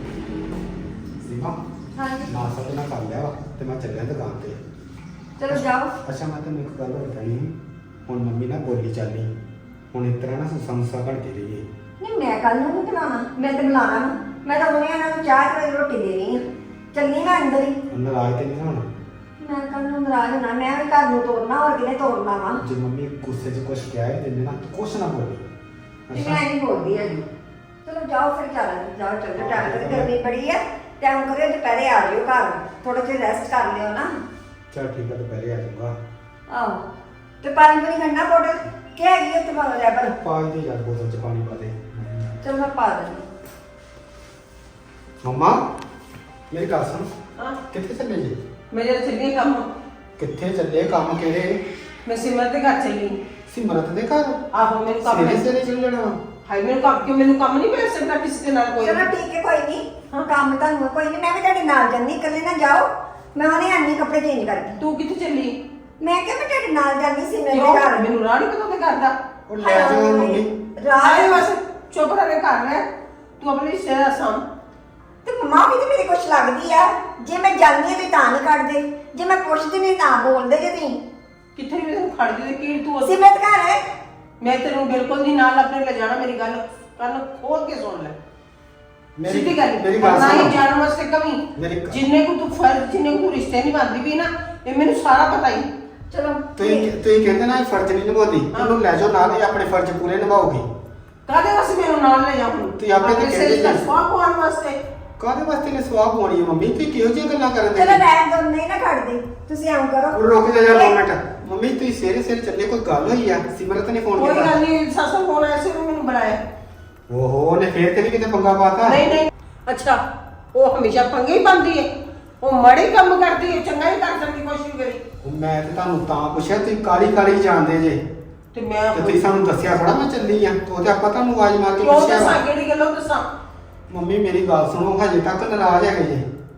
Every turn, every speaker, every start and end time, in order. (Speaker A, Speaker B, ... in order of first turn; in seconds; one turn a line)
Speaker A: 1.2-1.6
Speaker B: 1.9-2.3
Speaker A: 2.3-4.6
Speaker B: 5.4-5.9
Speaker A: 5.5-9.3
Speaker A: 9.9-11.7
Speaker B: 12.0-16.4
Speaker B: 16.9-17.8
Speaker A: 17.9-18.9
Speaker B: 19.4-22.6
Speaker A: 22.6-25.5
Speaker A: 26.1-26.4
Speaker B: 26.1-27.3
Speaker B: 27.8-34.1
Speaker A: 29.4-30.1
Speaker A: 34.7-36.0
Speaker B: 36.5-36.9
Speaker B: 37.4-40.1
Speaker A: 40.1-42.4
Speaker B: 42.4-43.3
Speaker A: 45.2-45.6
Speaker A: 46.5-47.1
Speaker A: 47.7-48.4
Speaker C: 48.7-49.7
Speaker A: 50.2-51.6
Speaker C: 52.0-53.2
Speaker A: 53.5-54.5
Speaker C: 54.5-55.5
Speaker A: 55.0-56.2
Speaker C: 56.5-59.1
Speaker B: 58.8-64.8
Speaker C: 64.8-65.5
Speaker B: 66.0-68.1
Speaker C: 67.5-70.4
Speaker A: 69.5-70.5
Speaker B: 69.7-71.5
Speaker C: 71.0-74.5
Speaker B: 75.2-81.0
Speaker C: 81.5-83.2
Speaker B: 83.0-83.8
Speaker C: 84.4-88.2
Speaker A: 89.2-90.6
Speaker C: 89.2-95.7
Speaker A: 91.6-92.0
Speaker B: 96.1-96.7
Speaker A: 96.6-100.7
Speaker C: 101.3-104.8
Speaker A: 102.8-103.9
Speaker A: 105.2-108.1
Speaker B: 107.7-110.2
Speaker A: 110.1-114.6
Speaker B: 110.7-111.0
Speaker C: 114.1-116.4
Speaker A: 117.1-119.1
Speaker C: 118.8-120.0
Speaker C: 120.5-121.9
Speaker C: 122.4-125.0
Speaker A: 125.2-128.0
Speaker C: 128.5-129.3
Speaker A: 128.9-132.4
Speaker C: 131.8-133.2
Speaker A: 133.9-136.3